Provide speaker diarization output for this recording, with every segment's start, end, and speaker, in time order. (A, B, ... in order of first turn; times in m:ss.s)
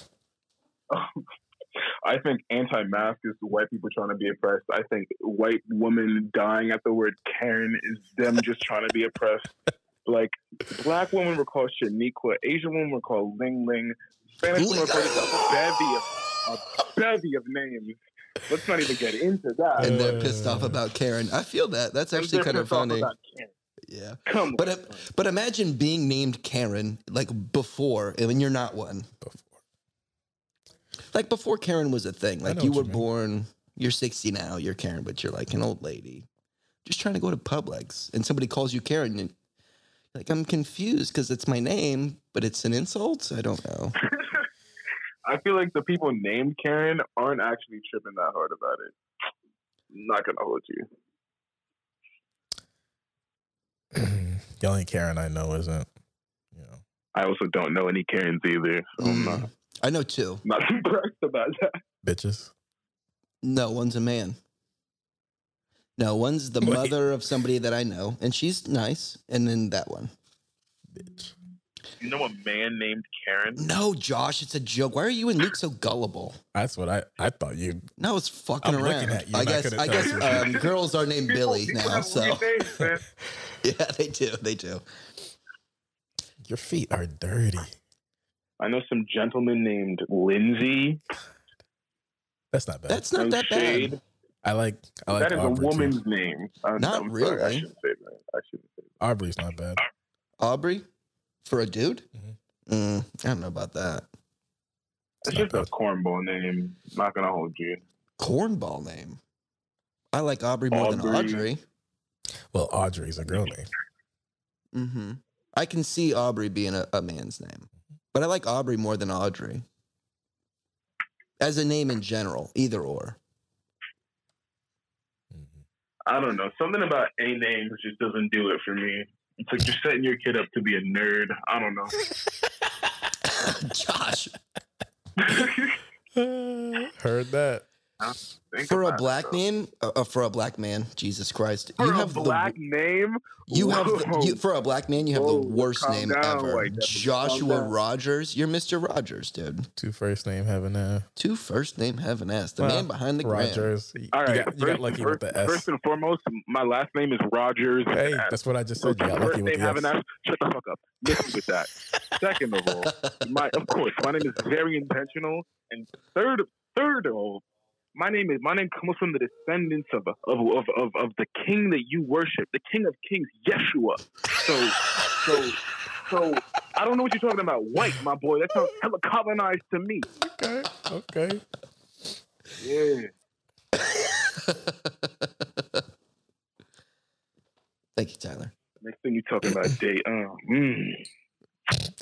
0:00.9-0:01.2 A
0:02.0-0:09.5 A
0:10.1-0:20.1 A
0:14.6-0:15.4 B
0:19.8-0:23.1 B
0:19.8-0:20.8 C
0:22.1-0:23.5 A
0:23.9-0:29.1 B
0:24.3-0:25.1 A
0:29.2-0:29.6 C
0:31.1-0:36.3 B
0:32.4-0:33.0 C
0:36.8-0:39.4 B
0:40.1-0:44.0 B
0:44.2-0:44.5 A
0:45.3-0:48.9 A
0:49.9-0:50.9 A
0:53.9-0:55.9 C
0:56.5-0:56.8 C
0:57.1-0:59.5 A
0:59.0-1:00.4 B
1:00.4-1:01.8 A
1:02.0-1:02.5 C
1:03.4-1:04.4 B
1:06.0-1:10.1 B
1:06.6-1:07.0 C
1:11.0-1:11.3 C
1:12.0-1:13.6 A
1:13.6-1:16.4 B
1:16.5-1:17.9 C
1:18.0-1:22.5 B
1:18.6-1:20.6 C
1:20.0-1:20.7 A
1:21.3-1:23.0 A
1:23.6-1:24.8 B
1:26.4-1:27.8 C
1:28.6-1:31.0 A
1:32.5-1:33.0 C
1:32.9-1:34.0 B
1:33.2-1:34.0 A
1:34.4-1:36.0 C
1:35.1-1:38.9 A
1:36.8-1:37.7 B
1:39.0-1:39.8 C
1:40.4-1:40.9 B
1:41.4-1:42.1 B
1:42.7-1:44.1 B
1:45.2-1:47.8 A
1:45.3-1:45.7 C
1:48.2-1:49.2 B
1:50.1-1:51.6 B
1:50.7-1:51.5 A
1:52.5-1:53.7 C
1:54.7-1:59.6 B
2:01.4-2:03.2 B
2:05.3-2:05.6 C
2:06.1-2:12.1 A
2:13.2-2:14.4 B
2:15.2-2:15.8 A
2:16.2-2:17.6 C
2:18.0-2:19.4 A
2:18.6-2:22.6 B
2:21.8-2:24.4 A
2:23.5-2:29.7 B
2:25.1-2:27.7 A
2:29.8-2:31.1 C
2:31.2-2:33.7 B
2:32.6-2:35.7 C
2:34.1-2:47.4 A
2:37.9-2:39.9 C
2:48.0-3:00.1 A
3:00.2-3:01.4 C
3:02.6-3:03.1 A
3:03.9-3:05.5 B
3:08.0-3:08.5 B
3:08.8-3:11.0 A